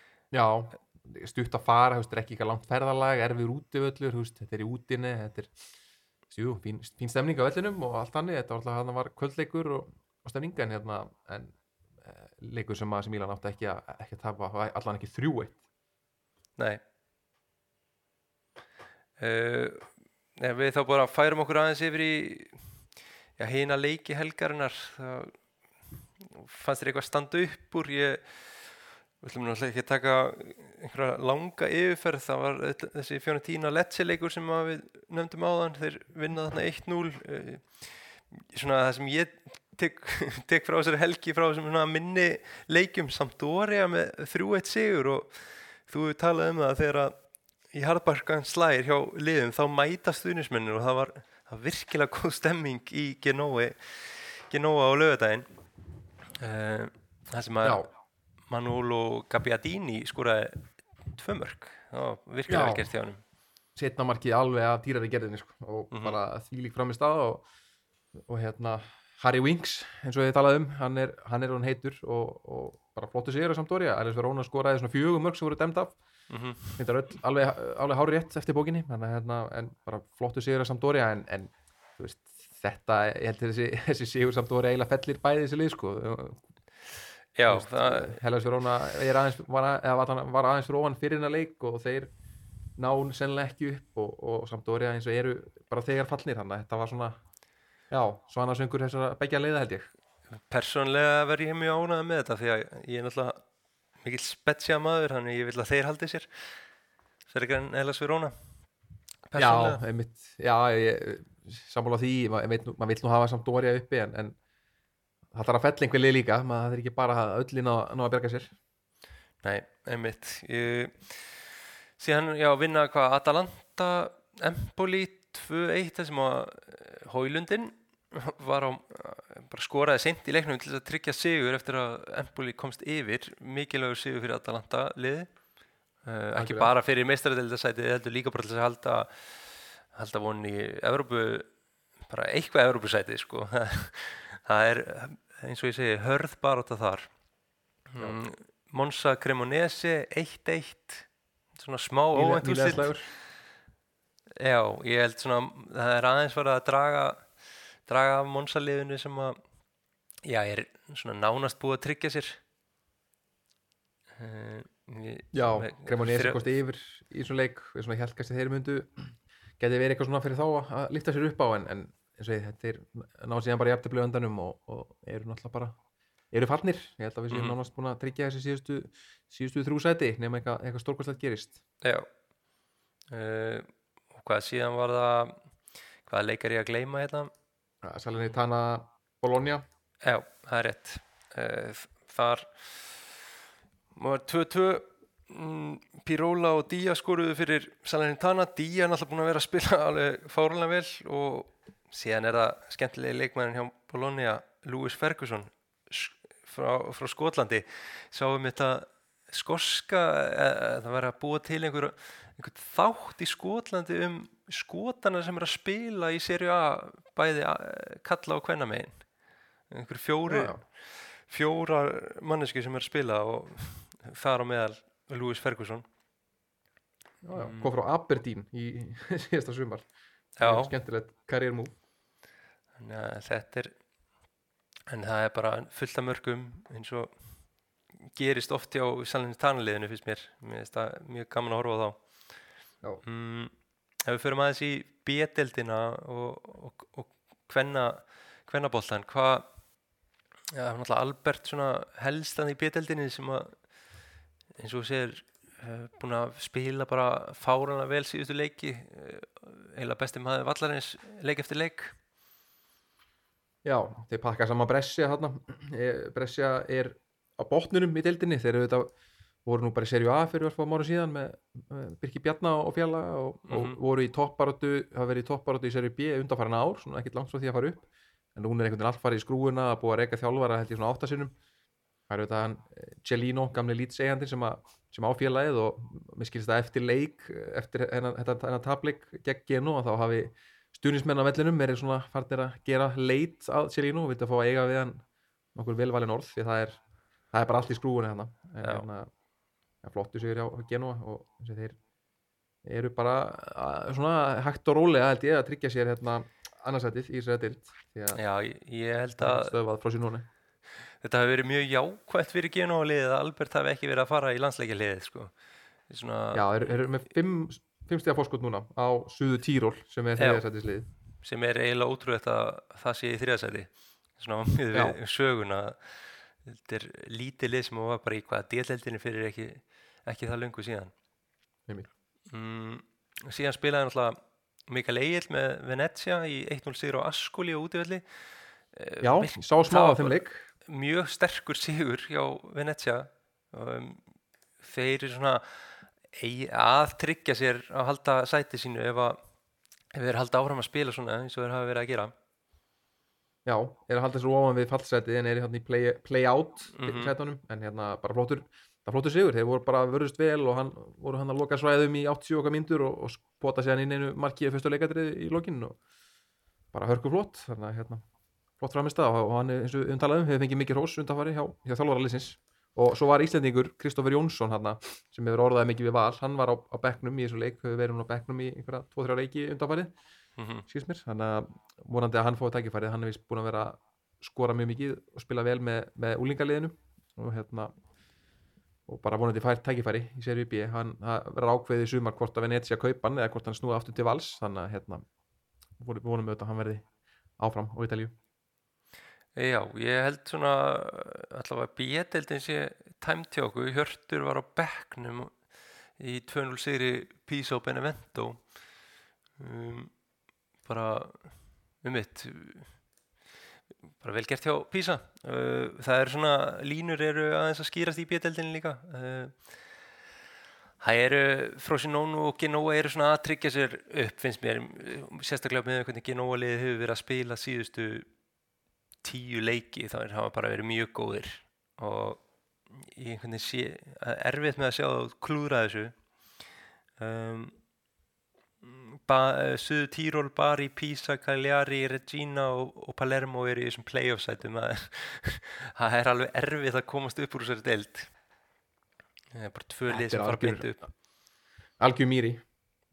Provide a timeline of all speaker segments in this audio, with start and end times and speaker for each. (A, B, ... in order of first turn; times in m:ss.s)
0:00.3-0:05.5 A
0:06.3-0:15.6 A
0:19.2-0:22.7 B
0:23.4-0:25.4 B
0:26.2-0:47.2 B
0:47.7-0:55.4 B
0:56.4-0:57.9 B
0:58.5-1:03.2 B
1:02.5-1:02.9 A
1:03.7-1:07.4 A
1:05.9-1:06.2 B
1:08.3-1:16.0 A
1:16.3-1:16.8 B
1:16.8-1:26.4 A
1:27.3-1:28.2 B
1:27.4-1:32.1 A
1:32.8-1:37.2 A
1:37.9-1:39.9 A
1:40.3-1:43.4 B
1:44.0-1:46.6 B
1:47.3-1:48.3 B
1:49.3-1:49.8 B
1:49.4-1:54.4 A
1:55.3-1:58.5 A
1:59.4-2:15.3 B
2:16.0-2:21.5 B
2:16.3-2:16.7 A
2:22.0-2:27.1 B
2:27.9-2:33.0 B
2:32.1-2:33.1 A
2:34.4-2:37.3 B
2:37.9-2:39.4 B
2:40.2-2:42.4 B
2:44.2-2:46.4 B
2:45.3-2:55.8 A
2:56.3-3:01.6 A
3:01.8-3:02.1 B
3:03.1-3:05.5 B
3:06.0-3:07.3 B
3:07.8-3:09.6 A
3:10.0-3:13.3 B
3:13.9-3:39.0 B
3:39.7-3:45.9 B
3:40.3-3:40.6 A
3:47.2-3:49.9 A
3:47.3-3:47.7 B
3:50.4-3:50.7 B
3:50.4-3:51.7 A
3:52.8-3:53.7 B
3:54.9-3:57.2 B
3:58.0-4:02.0 B
4:03.0-4:09.5 B
4:10.5-4:13.6 B
4:14.6-4:21.9 B
4:23.6-4:28.9 A
4:29.4-4:41.3 A
4:33.5-4:33.8 B
4:42.1-4:55.0 A
4:55.6-4:56.8 A
4:57.3-4:59.1 A
4:59.8-5:01.8 A
5:02.6-5:08.2 A
5:08.1-5:09.6 B
5:09.2-5:10.3 A
5:11.0-5:15.3 B
5:15.9-5:16.4 B
5:16.3-5:20.9 A
5:20.2-5:20.4 B
5:21.2-5:30.9 B
5:32.3-5:38.2 B
5:38.7-5:44.0 B
5:39.0-5:40.5 A
5:44.6-5:49.2 B
5:49.9-5:52.1 B
5:53.4-6:05.8 A
5:56.7-5:57.1 B
6:06.7-6:08.0 A
6:08.6-6:19.9 A
6:20.4-6:20.6 B
6:20.7-6:27.7 A
6:28.9-6:35.0 A
6:35.8-6:36.9 A
6:37.4-6:38.1 A
6:39.3-6:45.4 B
6:46.0-6:48.5 B
6:49.4-6:49.9 B
6:50.6-6:52.7 B
6:54.0-6:59.5 B
7:00.8-7:08.1 B
7:09.0-7:16.0 B
7:17.0-7:17.5 B
7:18.6-7:28.1 B
7:29.3-7:30.8 B
7:29.9-7:30.7 A
7:31.8-7:32.4 A